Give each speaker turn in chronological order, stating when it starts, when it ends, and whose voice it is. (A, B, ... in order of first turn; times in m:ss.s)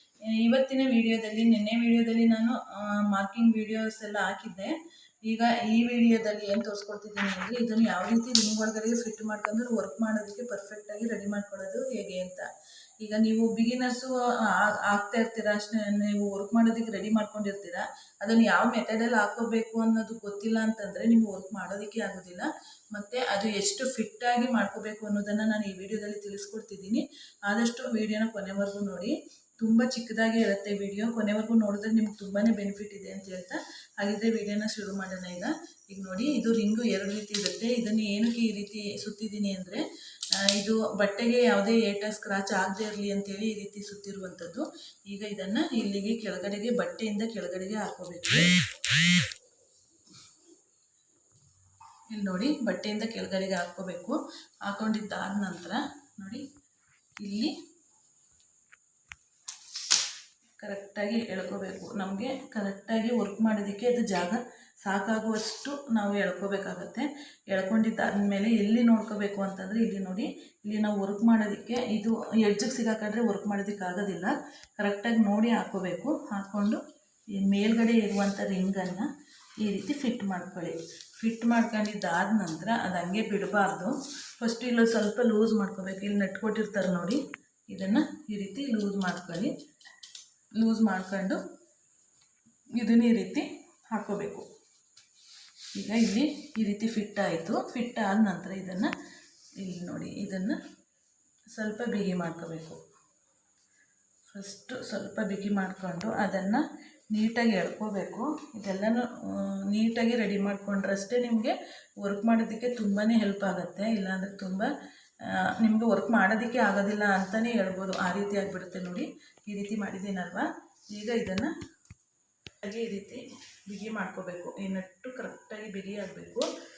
0:00.3-0:12.5 A
0:13.0-0:39.8 A
0:40.6-0:48.6 A
0:52.1-0:56.4 A
0:57.2-0:57.5 A
1:00.6-1:16.8 A
1:17.4-1:19.1 A
1:19.6-1:29.5 A
1:30.6-1:31.4 A
1:32.8-1:34.4 A
1:35.8-1:38.9 A
1:39.6-1:40.6 A
1:41.6-1:42.8 A
1:44.3-1:54.7 A
1:55.6-2:01.5 A
2:02.6-2:06.5 A